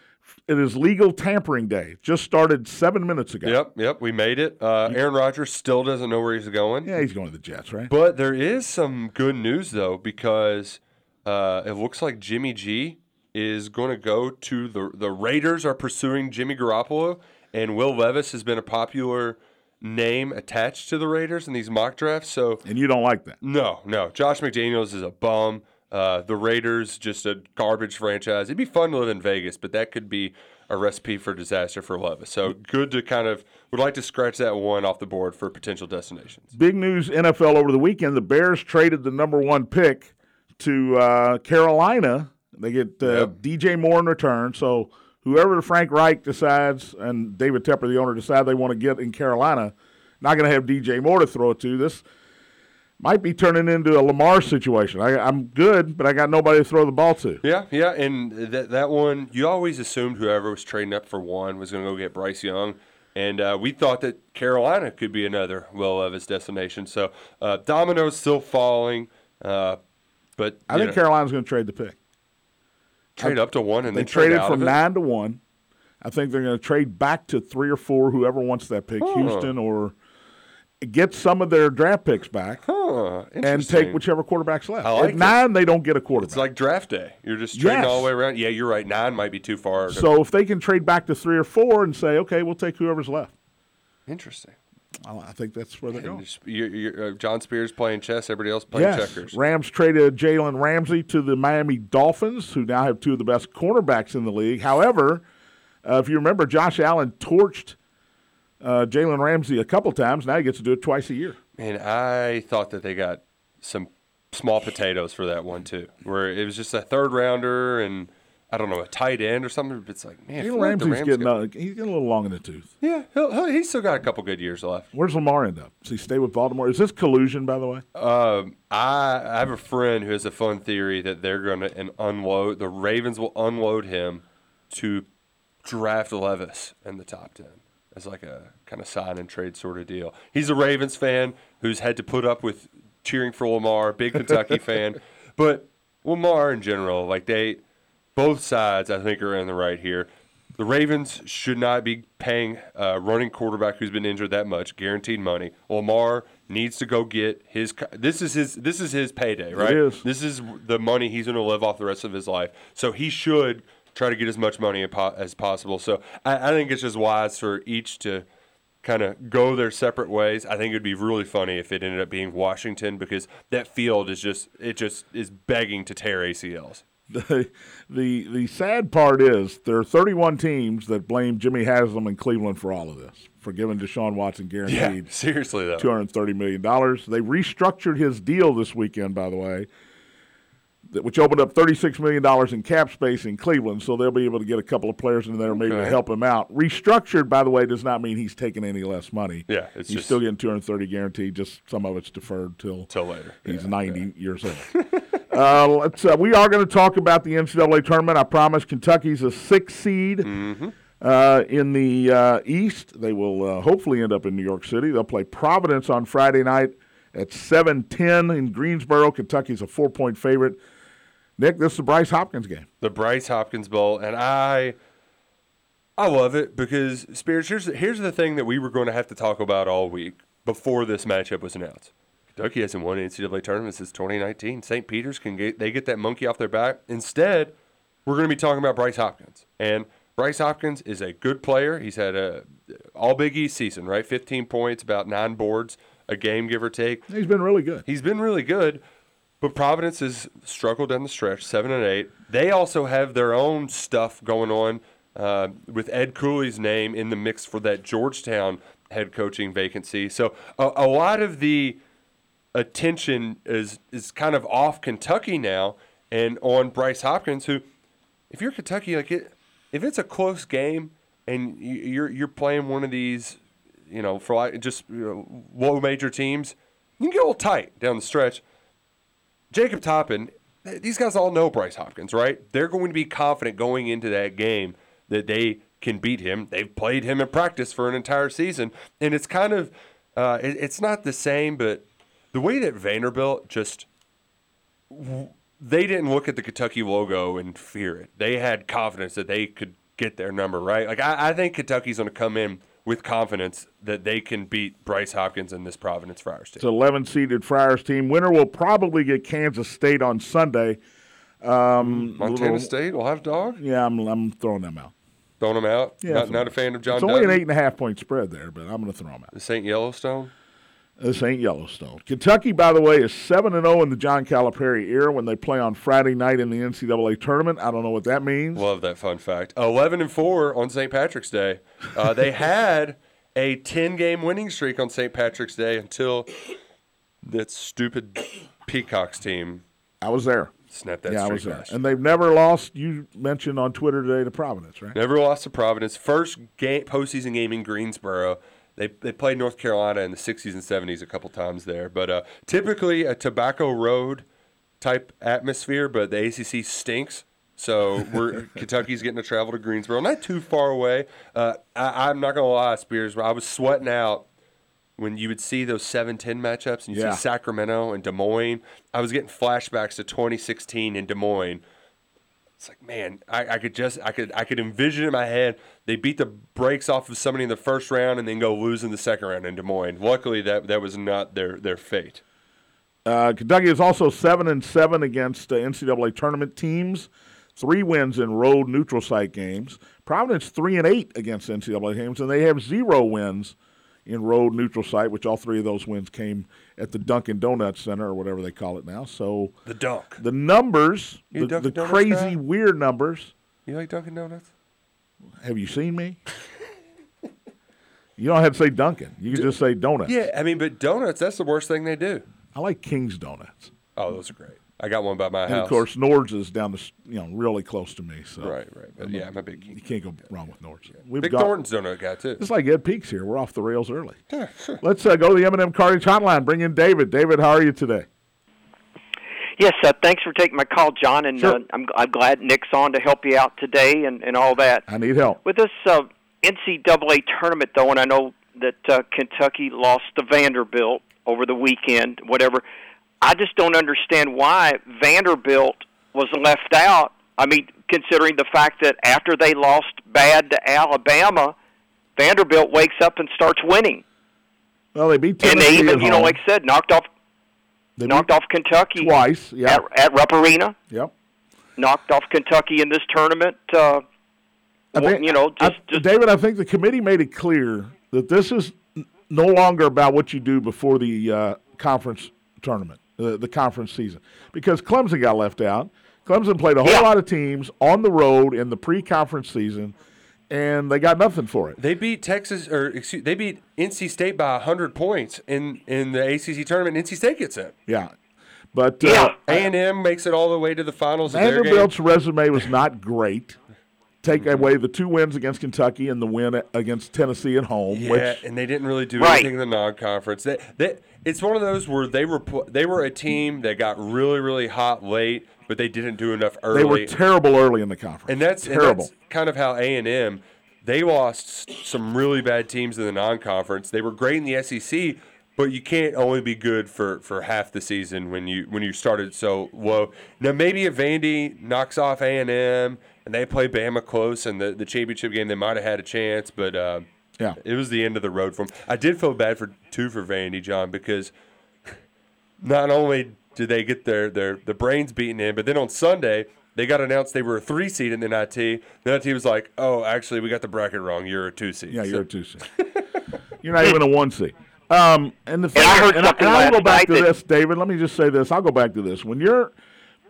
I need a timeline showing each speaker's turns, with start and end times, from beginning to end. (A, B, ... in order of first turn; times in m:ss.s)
0:00.5-0:03.6 A
0:03.4-0:06.9 B
0:06.8-0:07.9 A
0:07.9-0:22.6 B
0:22.6-0:23.4 A
0:23.4-0:36.5 B
0:36.5-0:52.0 A
0:43.0-0:43.3 B
0:53.0-0:57.4 A
0:57.4-1:09.8 B
1:10.4-1:11.0 B
1:10.7-1:12.0 A
1:13.2-1:14.8 B
1:13.2-1:15.4 A
1:16.0-1:19.9 A
1:19.0-1:19.5 B
1:20.8-1:22.6 A
1:22.6-1:24.0 B
1:23.4-1:26.5 A
1:24.8-1:25.4 B
1:26.2-1:30.1 B
1:27.5-1:28.1 A
1:29.9-1:33.3 A
1:34.1-1:34.6 B
1:35.0-1:36.2 A
1:35.9-1:39.4 B
1:38.7-1:45.2 A
1:45.8-1:47.8 A
1:48.6-1:51.4 A
1:51.6-2:01.3 B
2:00.4-2:02.7 A
2:02.8-2:04.9 B
2:04.9-2:07.8 A
2:07.9-2:15.0 B
2:15.6-2:27.6 B
2:28.2-2:48.2 B
2:39.5-2:40.0 A
2:48.8-2:56.8 B
2:57.1-3:05.1 A
3:04.6-3:05.9 B
3:05.8-3:09.7 A
3:10.9-3:22.9 A
3:15.6-3:16.0 B
3:19.5-3:20.2 B
3:22.9-3:24.0 B
3:23.4-3:24.7 A
3:24.7-3:25.0 B
3:25.3-3:30.3 A
3:30.2-3:30.7 B
3:31.0-3:40.6 A
3:41.4-3:42.7 A
3:42.8-3:44.8 B
3:46.0-3:57.5 B
3:58.0-4:07.1 B
4:07.1-4:07.8 A
4:07.8-4:08.8 B
4:09.4-4:21.8 B
4:22.5-4:27.6 B
4:28.3-4:38.4 B
4:39.5-4:53.8 B
4:54.9-5:06.6 B
5:06.6-5:10.8 A
5:11.4-5:12.7 A
5:11.8-5:13.6 B
5:13.6-5:14.9 A
5:15.4-5:17.4 B
5:16.0-5:19.3 A
5:19.3-5:20.3 B
5:21.0-5:28.6 A
5:28.5-5:36.3 B
5:37.2-5:39.6 B
5:40.0-5:40.5 A
5:40.7-5:41.8 B
5:41.1-5:45.0 A
5:44.9-5:54.2 B
5:54.8-6:04.2 B
6:05.0-6:11.6 B
6:06.9-6:07.2 A
6:12.6-6:22.2 B
6:23.0-6:33.5 A
6:34.0-6:39.6 A
6:39.6-6:40.2 B
6:40.2-6:43.3 A
6:41.3-6:42.4 B
6:43.7-6:44.5 B
6:45.4-6:46.2 A
6:48.2-6:50.1 A
6:50.0-6:52.2 B
6:52.5-6:53.7 A
6:54.0-6:55.8 B
6:55.4-7:01.5 A
6:58.4-6:59.8 B
7:01.2-7:02.4 B
7:02.4-7:04.2 A
7:04.3-7:04.8 B
7:04.8-7:08.0 A
7:09.6-7:14.8 C
7:14.9-7:15.4 A
7:15.4-7:22.6 C
7:23.2-7:31.5 C
7:32.2-7:34.0 C
7:34.9-7:36.4 A
7:35.4-7:37.1 C
7:38.0-7:38.3 A
7:38.0-7:39.1 C
7:39.0-7:39.8 A
7:39.6-7:40.7 C
7:41.8-7:44.0 C
7:44.9-7:46.0 C
7:44.9-7:59.9 A
7:56.8-7:57.1 C
8:00.5-8:01.8 A
8:01.8-8:07.7 B
8:07.9-8:08.1 A
8:08.7-8:09.7 A
8:09.0-8:09.4 C
8:09.4-8:11.9 B
8:11.3-8:13.6 A
8:14.2-8:18.4 A
8:14.3-8:14.7 B
8:17.9-8:27.1 B
8:19.2-8:19.5 C
8:26.7-8:29.1 A
8:28.3-8:47.1 B
8:47.6-8:51.3 B
8:52.6-9:02.2 B
9:01.9-9:02.6 A
9:02.8-9:03.0 B
9:03.6-9:09.7 A
9:05.7-9:07.2 C